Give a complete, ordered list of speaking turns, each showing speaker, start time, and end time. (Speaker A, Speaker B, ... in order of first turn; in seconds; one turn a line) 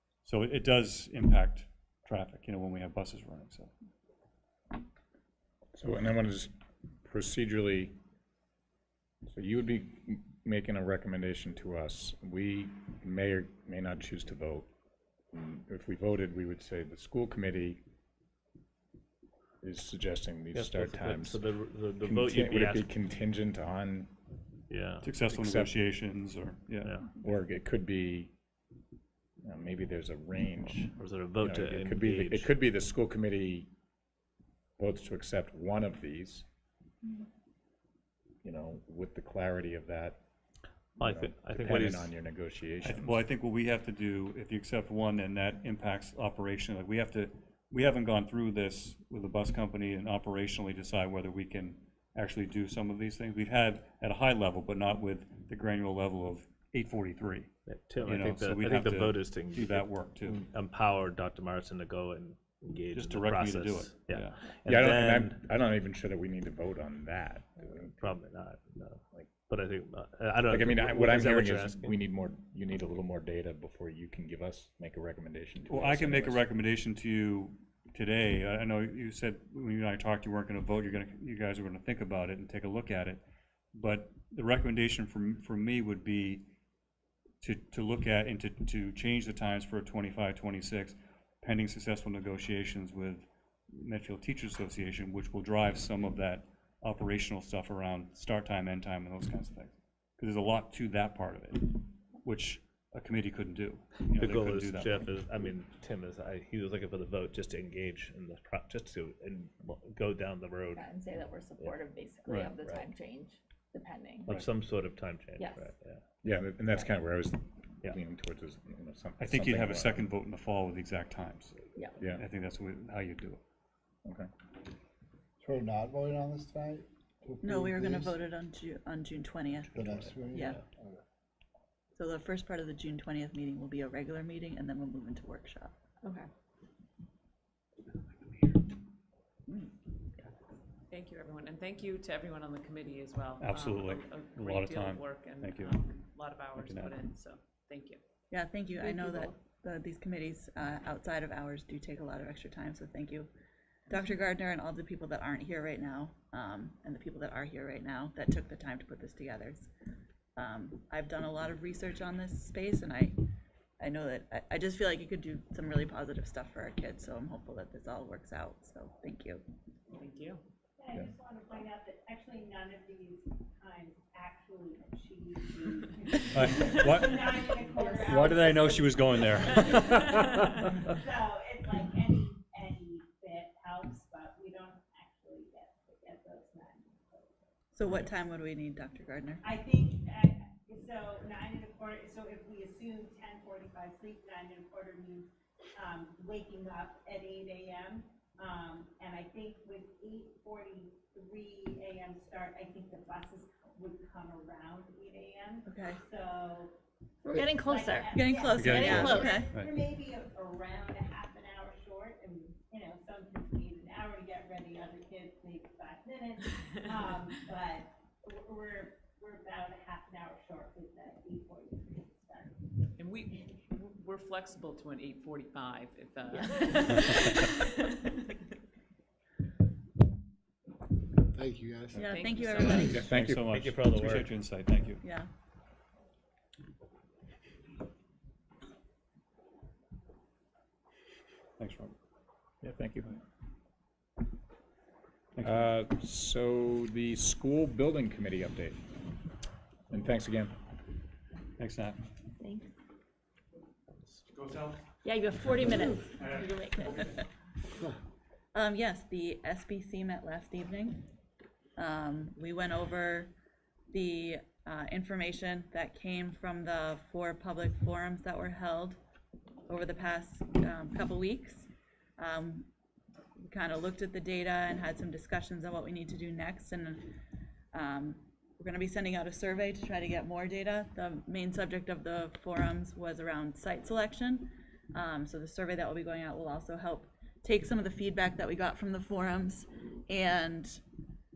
Speaker A: 0.2-3.7
Speaker B: 5.7-6.5
Speaker B: 7.0-7.9
Speaker B: 9.2-14.7
Speaker B: 15.3-17.8
Speaker B: 19.6-21.4
Speaker C: 20.5-22.9
Speaker B: 22.0-24.1
Speaker C: 24.7-25.1
Speaker A: 25.0-27.0
Speaker B: 25.3-25.7
Speaker C: 26.8-27.1
Speaker B: 27.2-28.3
Speaker B: 29.4-33.7
Speaker C: 30.9-32.5
Speaker B: 34.8-36.4
Speaker B: 38.4-40.2
Speaker C: 41.0-42.1
Speaker B: 41.0-43.1
Speaker A: 42.8-57.5
Speaker C: 57.6-65.4
Speaker A: 58.0-60.4
Speaker A: 62.9-64.4
Speaker B: 64.7-68.1
Speaker C: 67.7-71.9
Speaker B: 70.5-76.4
Speaker A: 75.7-86.4
Speaker A: 87.4-105.0
Speaker C: 104.1-110.9
Speaker D: 110.7-114.3
Speaker A: 112.2-112.6
Speaker C: 112.5-112.8
Speaker C: 114.2-116.0
Speaker D: 115.4-115.7
Speaker B: 116.2-120.0
Speaker A: 119.2-121.5
Speaker A: 122.1-123.4
Speaker B: 124.0-124.3
Speaker E: 125.4-128.1
Speaker F: 127.4-129.8
Speaker E: 129.7-131.0
Speaker C: 129.9-130.6
Speaker F: 131.9-135.7
Speaker D: 136.0-136.3
Speaker G: 140.9-148.0
Speaker A: 143.4-145.8
Speaker A: 146.6-147.0
Speaker F: 148.3-153.3
Speaker D: 148.8-149.3
Speaker F: 153.9-159.7
Speaker F: 160.3-163.2
Speaker F: 163.8-169.4
Speaker G: 169.9-170.4
Speaker H: 170.8-180.0
Speaker A: 176.3-177.5
Speaker D: 177.7-178.0
Speaker A: 178.1-180.4
Speaker H: 180.9-187.5
Speaker F: 187.7-189.5
Speaker H: 189.4-206.7
Speaker F: 205.7-206.0
Speaker D: 207.2-208.1
Speaker H: 207.7-222.6
Speaker F: 208.1-209.5
Speaker A: 208.6-209.7
Speaker D: 208.8-209.4
Speaker G: 223.0-227.7
Speaker E: 231.3-232.0
Speaker F: 232.0-233.0
Speaker G: 232.0-232.9
Speaker A: 232.5-235.0
Speaker B: 232.7-233.4
Speaker C: 233.3-234.3
Speaker F: 235.0-235.3
Speaker A: 241.6-241.9
Speaker B: 242.6-243.2
Speaker A: 245.3-245.7
Speaker B: 245.4-248.8
Speaker B: 249.9-250.6
Speaker A: 251.6-252.0
Speaker D: 252.4-252.7
Speaker A: 254.4-254.8
Speaker D: 255.0-257.2
Speaker F: 258.5-261.1
Speaker F: 261.8-263.3
Speaker F: 263.9-269.0
Speaker F: 269.7-272.7
Speaker F: 273.4-277.1
Speaker F: 277.7-290.8